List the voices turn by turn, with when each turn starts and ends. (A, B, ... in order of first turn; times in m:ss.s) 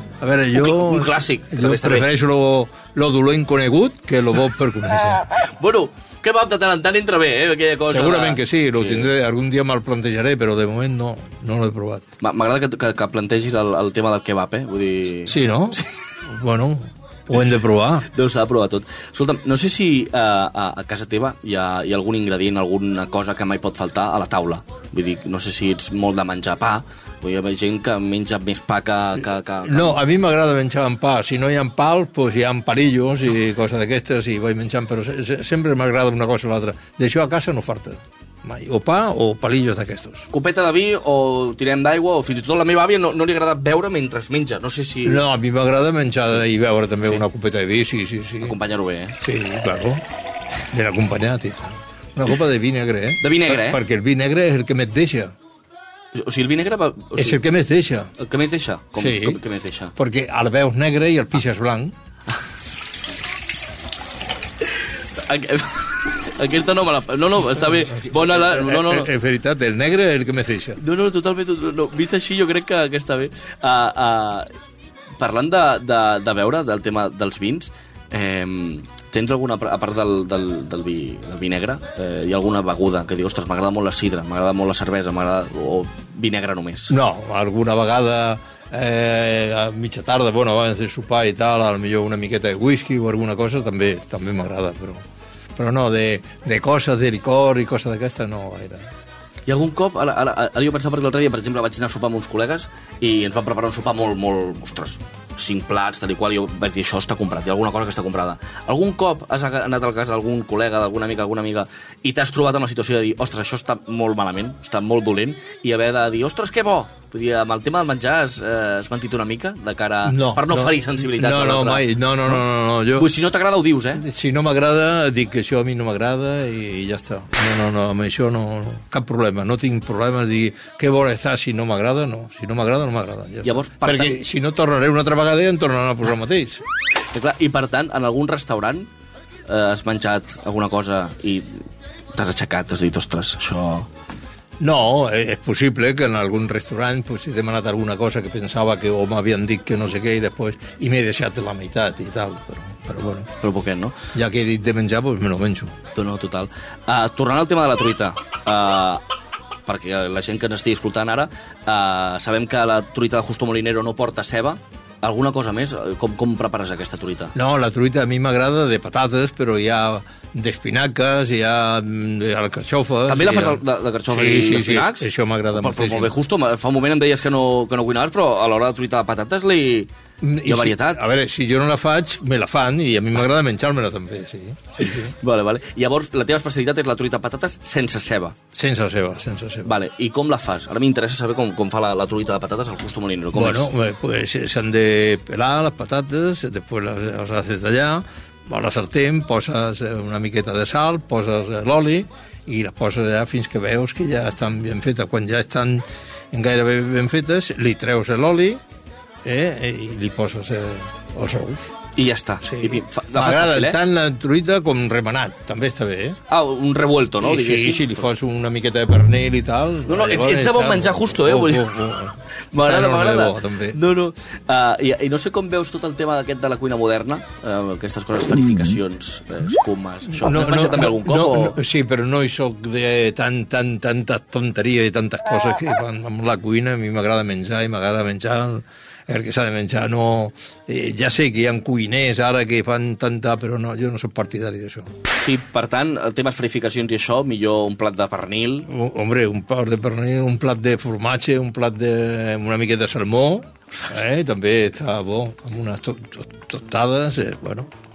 0:00.2-0:05.2 A
0:00.6-0:02.1 B
0:05.6-0:09.1 B
0:07.9-0:12.1 A
0:12.2-0:15.9 B
0:15.3-0:18.1 A
0:18.1-0:30.0 B
0:29.6-0:40.3 A
0:40.3-0:45.2 B
0:45.0-0:48.5 A
0:48.4-0:49.2 B
0:49.2-0:50.0 A
0:50.7-0:55.3 A
0:53.2-0:53.8 B
0:56.2-0:57.4 B
0:57.2-0:58.1 A
0:58.2-0:59.9 B
0:59.0-0:59.4 A
1:00.0-1:01.9 A
1:04.6-1:09.1 B
1:07.6-1:10.8 A
1:10.8-1:14.5 B
1:15.2-1:26.9 B
1:26.9-1:35.0 A
1:35.6-1:38.9 A
1:39.5-2:04.0 B
2:00.0-2:03.1 A
2:04.0-2:16.6 A
2:13.4-2:14.2 B
2:17.1-2:18.9 B
2:19.5-2:21.6 B
2:22.2-2:23.9 B
2:24.6-2:33.3 A
2:33.4-2:34.0 B
2:34.1-2:35.7 A
2:36.0-2:39.0 B
2:39.7-2:47.3 B
2:47.3-2:56.2 A
2:53.1-2:59.9 B
3:00.2-3:05.1 A
3:00.5-3:01.0 B
3:04.8-3:08.4 B
3:08.5-3:09.8 A
3:09.6-3:13.7 B
3:13.3-3:28.6 A
3:29.2-3:31.7 A
3:32.0-3:33.8 B
3:32.4-3:36.2 A
3:36.3-3:38.0 B
3:37.2-3:43.8 A
3:39.9-3:42.0 B
3:42.5-3:51.6 B
3:50.1-4:04.9 A
4:05.2-4:08.7 B
4:08.7-4:17.7 A